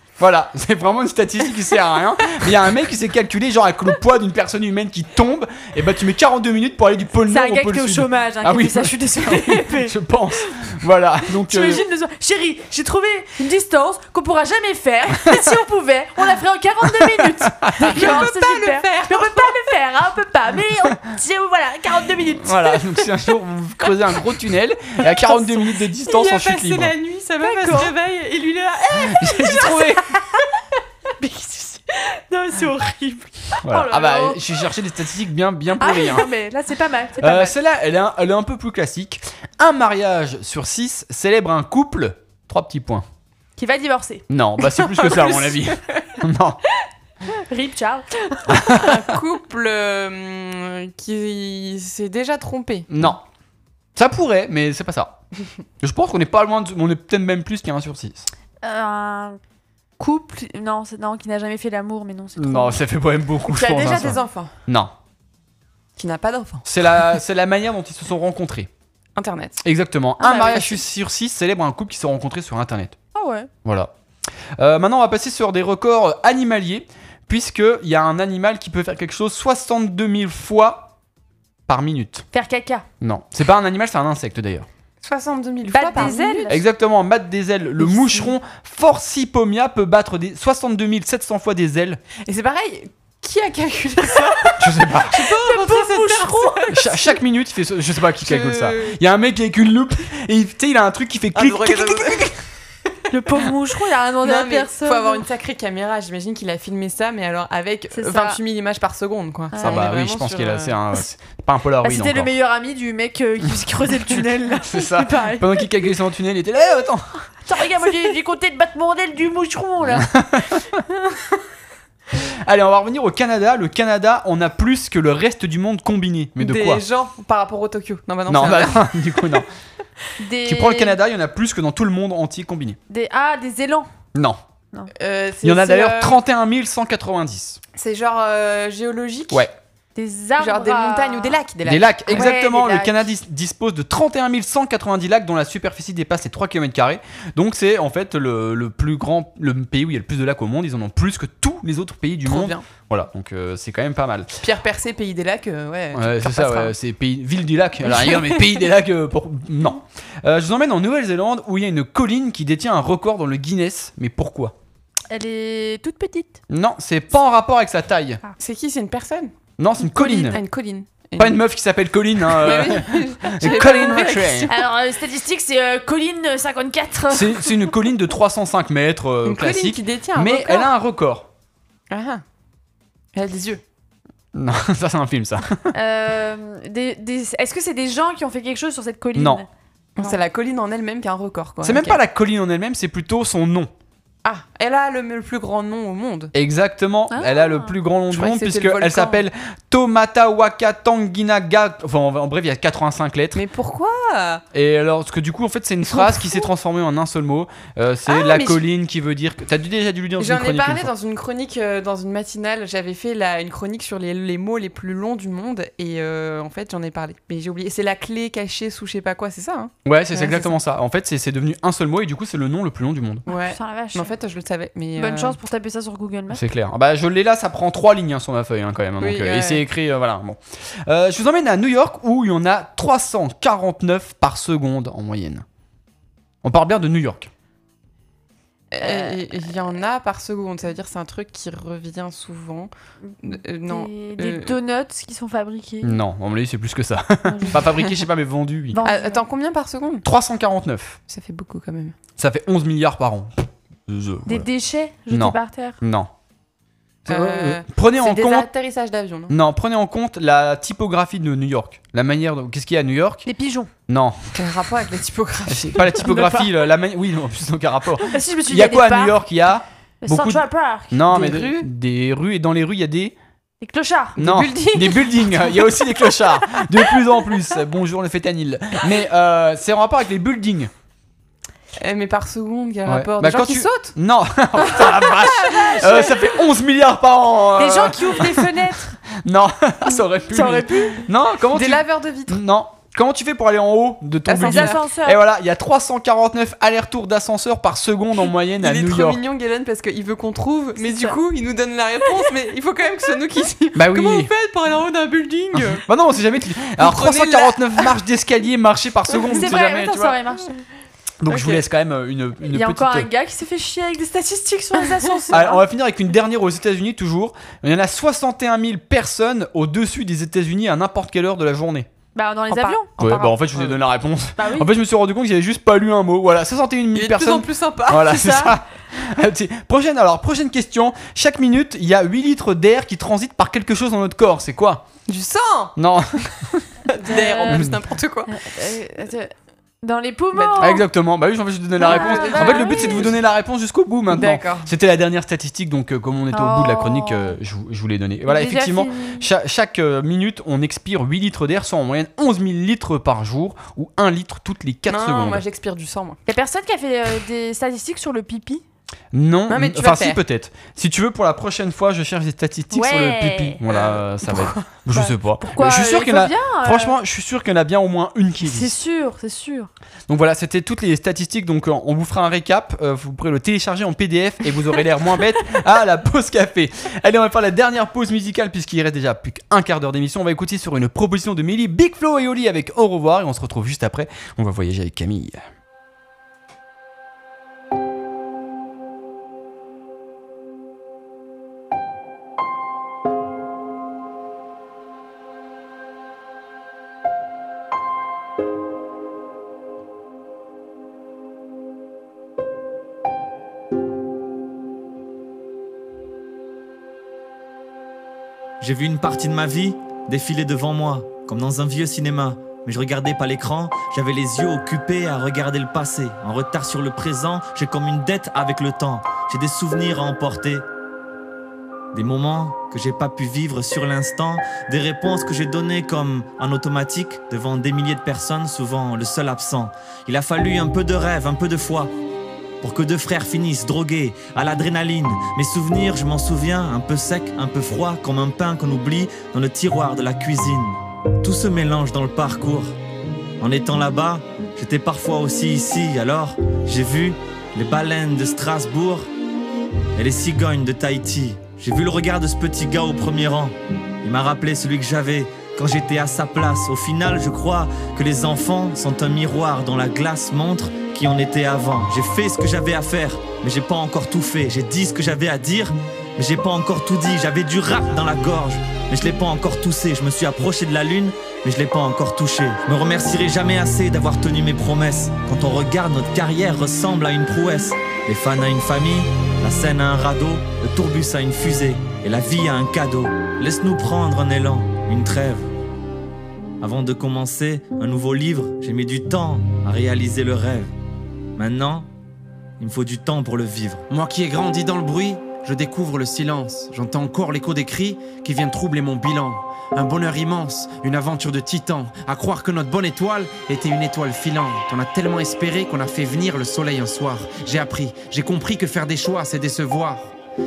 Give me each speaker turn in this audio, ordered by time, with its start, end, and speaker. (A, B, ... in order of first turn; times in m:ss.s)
0:00.2-0:11.8 A
0:07.3-0:10.5 B
0:11.3-0:23.1 B
0:16.8-0:18.1 A
0:17.8-0:19.7 C
0:22.4-0:26.9 A
0:26.0-0:30.1 C
0:27.4-0:27.9 B
0:29.0-0:30.0 A
0:30.1-0:30.4 B
0:31.2-0:34.4 B
0:33.6-0:36.3 A
0:35.8-0:37.5 B
0:37.2-0:43.0 A
0:43.6-0:44.2 B
0:44.3-0:46.6 A
0:45.0-0:46.0 C
0:47.2-0:48.6 B
0:48.5-0:49.0 A
0:48.7-0:53.0 C
0:52.9-0:53.2 A
0:53.9-0:55.2 A
0:55.8-0:58.3 A
0:58.6-0:59.4 B
1:00.0-1:02.8 B
1:02.4-1:04.9 A
1:03.5-1:04.5 C
1:03.6-1:04.1 B
1:06.0-1:06.7 C
1:06.6-1:08.7 A
1:09.2-1:09.6 C
1:09.6-1:13.0 A
1:10.2-1:10.8 B
1:13.1-1:13.5 B
1:13.6-1:13.9 A
1:14.6-1:20.9 A
1:21.7-1:22.2 A
1:22.3-1:22.8 B
1:23.0-1:24.7 A
1:25.0-1:26.6 C
1:25.7-1:26.6 B
1:26.0-1:32.0 A
1:27.8-1:28.3 C
1:32.2-1:37.1 C
1:34.6-1:35.2 A
1:35.1-1:36.7 B
1:36.7-1:42.3 A
1:38.2-1:39.0 C
1:41.3-1:42.4 C
1:43.1-1:45.2 B
1:44.2-1:50.8 C
1:47.9-1:48.4 B
1:49.5-1:49.9 B
1:49.6-1:52.3 A
1:51.8-1:55.6 B
1:54.6-1:57.2 A
1:57.4-2:00.1 B
1:59.9-2:00.6 A
2:02.2-2:06.8 A
2:06.4-2:09.4 C
2:08.3-2:09.5 A
2:10.2-2:11.0 B
2:10.4-2:12.8 A
2:12.9-2:13.9 B
2:14.1-2:14.4 A
2:14.9-2:16.2 C
2:15.4-2:17.6 A
2:17.7-2:19.5 C
2:20.0-2:21.4 B
2:20.4-2:22.3 C
2:21.6-2:34.3 A
2:22.1-2:23.1 B
2:32.2-2:32.7 C
2:34.4-2:36.7 C
2:35.9-2:44.5 A
2:37.9-2:38.4 C
2:45.1-2:46.4 B
2:46.5-2:48.2 A
2:48.4-2:49.3 C
2:49.6-2:50.4 A
2:49.8-2:51.4 C
2:51.2-2:54.5 A
2:52.2-2:54.6 C
2:53.5-2:53.8 B
2:54.5-2:57.7 B
2:57.1-3:01.3 A
2:59.2-3:00.7 C
3:01.9-3:02.2 C
3:03.1-3:03.6 C
3:04.3-3:05.7 A
3:05.7-3:09.5 B
3:09.2-3:09.4 A
3:10.0-3:12.0 C
3:11.6-3:13.7 A
3:14.2-3:16.3 C
3:16.3-3:23.4 A
3:17.1-3:17.7 B
3:18.1-3:19.2 C
3:23.3-3:24.4 C
3:24.5-3:30.9 A
3:25.9-3:26.4 C
3:28.1-3:28.6 C
3:30.2-3:40.5 C
3:39.8-3:43.2 A
3:43.2-3:44.1 B
3:43.2-3:45.4 C
3:45.0-3:46.4 B
3:46.3-3:55.4 A
3:49.0-3:49.6 C
3:56.4-3:57.3 A
3:58.7-4:02.7 C
3:58.8-3:59.2 B
4:03.1-4:06.0 B
4:03.2-4:04.5 C
4:05.8-4:08.8 A
4:07.3-4:07.6 B
4:08.7-4:09.2 B
4:08.8-4:10.0 C
4:10.0-4:11.0 A
4:11.1-4:12.0 C
4:12.2-4:13.3 A
4:13.9-4:14.5 A
4:14.2-4:15.8 B
4:15.1-4:16.1 A
4:17.0-4:18.5 A
4:17.0-4:19.4 C
4:19.3-4:23.3 A
4:23.2-4:23.7 B
4:23.9-4:24.2 A
4:24.3-4:26.1 C
4:25.5-4:33.1 A
4:26.0-4:26.5 B
4:28.1-4:29.2 B
4:30.0-4:31.3 B
4:31.1-4:31.6 C
4:33.6-4:34.5 B
4:34.2-4:40.7 A
4:34.2-4:35.1 C
4:41.8-4:43.9 C
4:42.8-4:59.2 A
4:44.7-4:46.2 C
4:47.6-4:49.0 B
4:50.3-4:51.0 B
4:51.5-4:52.4 C
4:54.3-4:54.8 C
4:54.4-4:55.2 B
4:58.6-5:05.8 C
5:00.8-5:01.1 B
5:03.7-5:04.3 A
5:05.5-5:10.2 A
5:06.8-5:07.9 C
5:09.3-5:10.5 B
5:11.2-5:13.1 A
5:11.3-5:11.6 C
5:12.5-5:15.6 B
5:15.3-5:21.9 A
5:22.1-5:22.9 B
5:22.5-5:23.8 C
5:23.0-5:34.8 A
5:24.4-5:24.7 B
5:26.9-5:28.5 C
5:28.2-5:28.4 B
5:35.1-5:35.8 C
5:35.8-5:36.7 A
5:36.9-5:38.4 C
5:37.0-5:37.7 B
5:37.4-5:37.8 A
5:38.3-5:40.8 B
5:40.3-5:40.8 C
5:40.6-5:55.4 A
5:41.8-5:43.2 C
5:41.8-5:43.0 B
5:44.1-5:44.7 C
5:46.3-5:47.4 B
5:48.2-5:49.2 B
5:54.9-5:56.2 C
5:56.3-5:58.6 B
5:59.1-6:08.8 A
5:59.5-6:00.2 C
6:02.7-6:03.6 B
6:03.7-6:04.8 C
6:05.0-6:07.0 B
6:08.4-6:09.7 B
6:10.1-6:25.4 A
6:48.6-7:00.6 D
7:01.9-7:11.9 D
7:12.6-7:22.7 D
7:23.4-7:29.1 D
7:29.9-8:05.5 D
8:06.6-8:10.7 D
8:11.4-8:11.9 D
8:12.6-8:13.8 D
8:13.9-8:30.1 E